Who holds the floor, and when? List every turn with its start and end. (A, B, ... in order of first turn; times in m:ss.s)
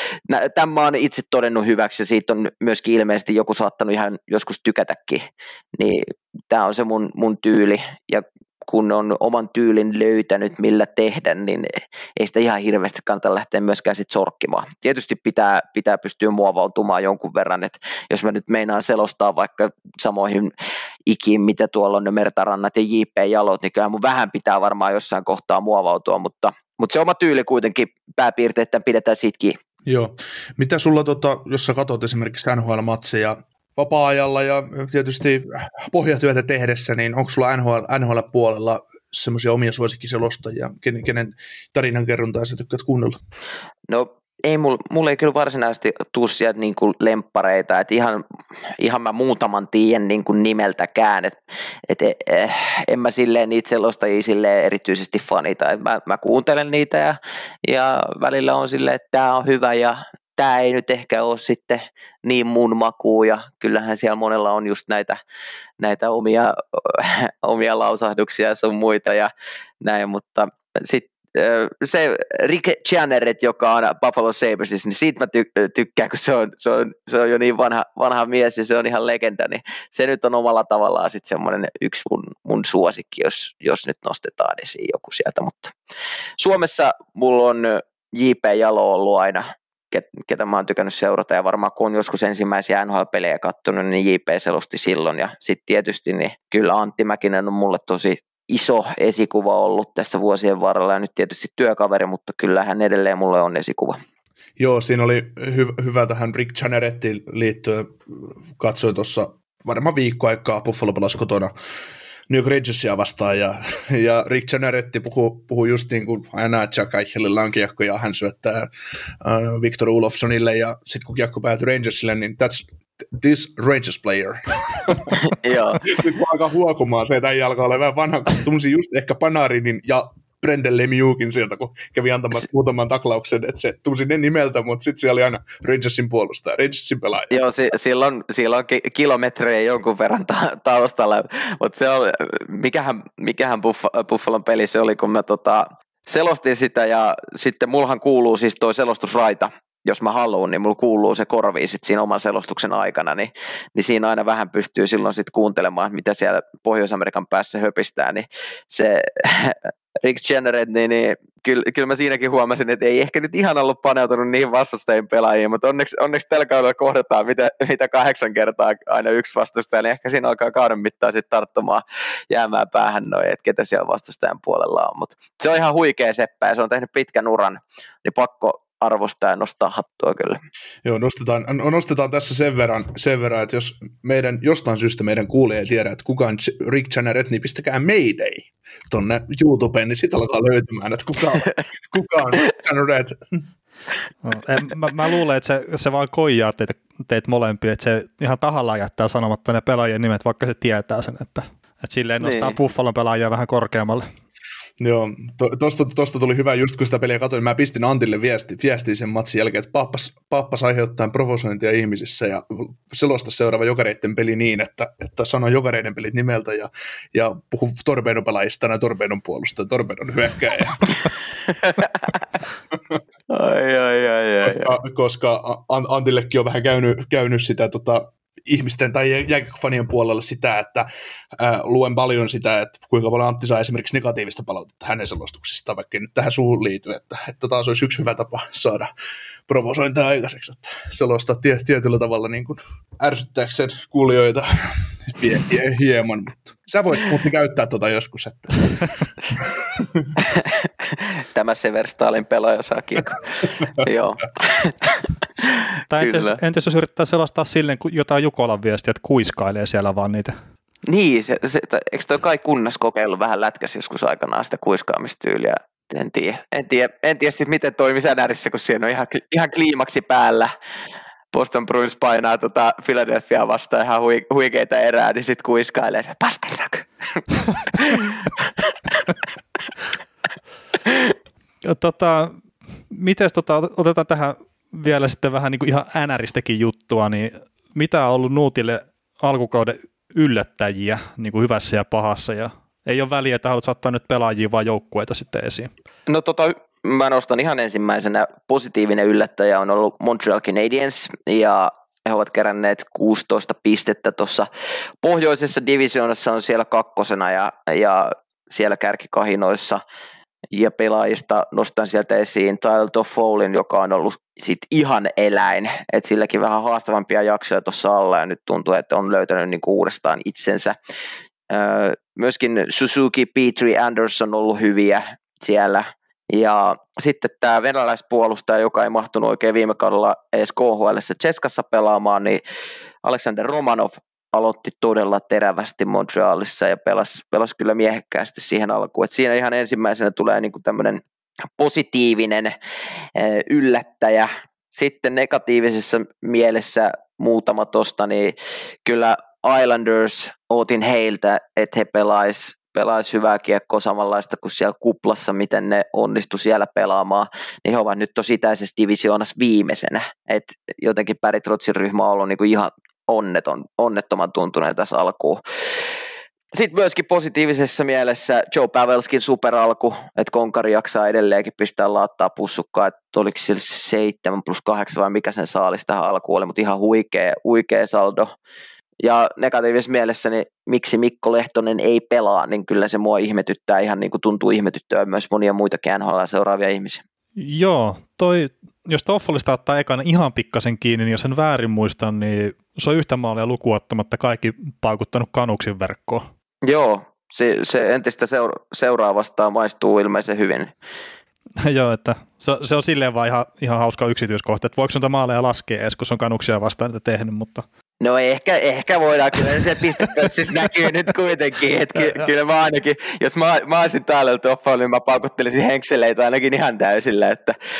0:00.3-0:20.5 A
0:21.1-0:29.6 A
0:29.9-0:43.2 B
0:43.9-0:48.2 A
0:48.8-0:51.4 A
0:51.9-1:05.2 A
1:05.8-1:09.3 A
1:09.8-1:25.7 A
1:26.4-1:44.0 A
1:44.6-1:51.5 B
1:52.3-1:58.7 B
1:59.2-2:05.2 B
2:05.2-2:05.9 A
2:05.8-2:17.3 B
2:17.3-3:00.4 A
3:00.8-3:13.4 B
3:14.2-3:24.0 C
3:22.2-3:22.6 A
3:24.8-3:41.1 B
3:41.5-3:42.1 A
3:42.7-3:43.0 B
3:43.3-3:44.7 A
3:44.4-3:58.9 B
3:59.5-4:08.7 B
4:09.4-4:10.1 B
4:10.2-4:16.4 A
4:15.9-4:20.4 C
4:20.9-4:30.5 A
4:31.3-4:36.9 A
4:37.5-4:39.2 A
4:40.9-4:41.1 A
4:41.6-4:42.4 C
4:42.9-4:55.7 C
4:56.1-5:04.5 A
5:05.0-5:09.8 A
5:10.5-5:20.8 A
5:21.5-5:32.4 A
5:33.0-5:41.0 A
5:41.6-5:42.6 A
5:43.2-6:05.4 A
6:06.5-6:18.3 A
6:19.0-6:27.0 A
6:27.4-6:36.3 C
6:36.6-6:40.7 A
6:41.6-6:47.7 C
6:48.0-6:57.6 A
6:52.0-6:52.3 C